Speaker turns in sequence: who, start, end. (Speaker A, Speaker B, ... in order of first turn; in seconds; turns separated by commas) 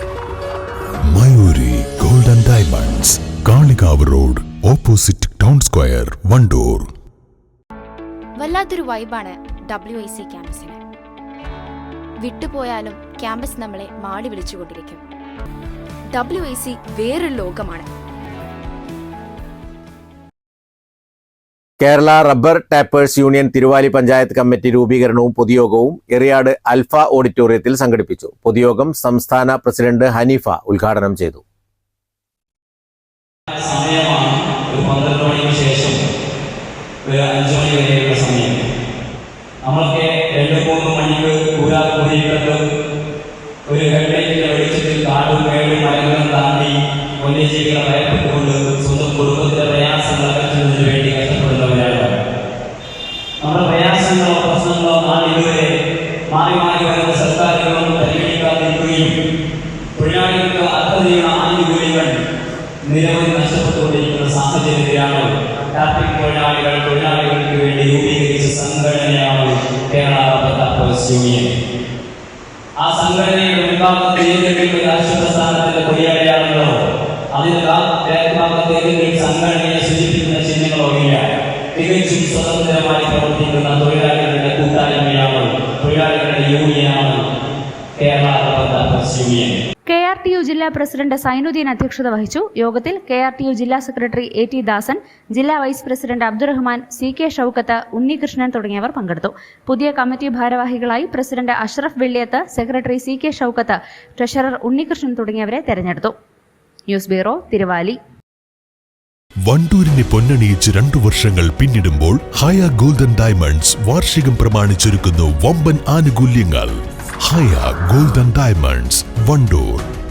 Speaker A: 1.1-6.9, Speaker B: 8.4-10.8, Speaker B: 12.2-15.0, Speaker B: 16.1-17.9, Speaker C: 21.8-31.4, Speaker D: 33.5-36.0, Speaker D: 37.0-38.6, Speaker D: 39.6-42.6, Speaker D: 43.7-52.1, Speaker D: 53.4-55.7, Speaker D: 56.3-59.1, Speaker D: 60.0-62.2, Speaker D: 62.9-71.5, Speaker D: 72.8-76.8, Speaker D: 77.3-87.3, Speaker D: 88.0-89.6, Speaker E: 89.9-106.1, Speaker E: 106.9-107.9, Speaker A: 109.5-119.8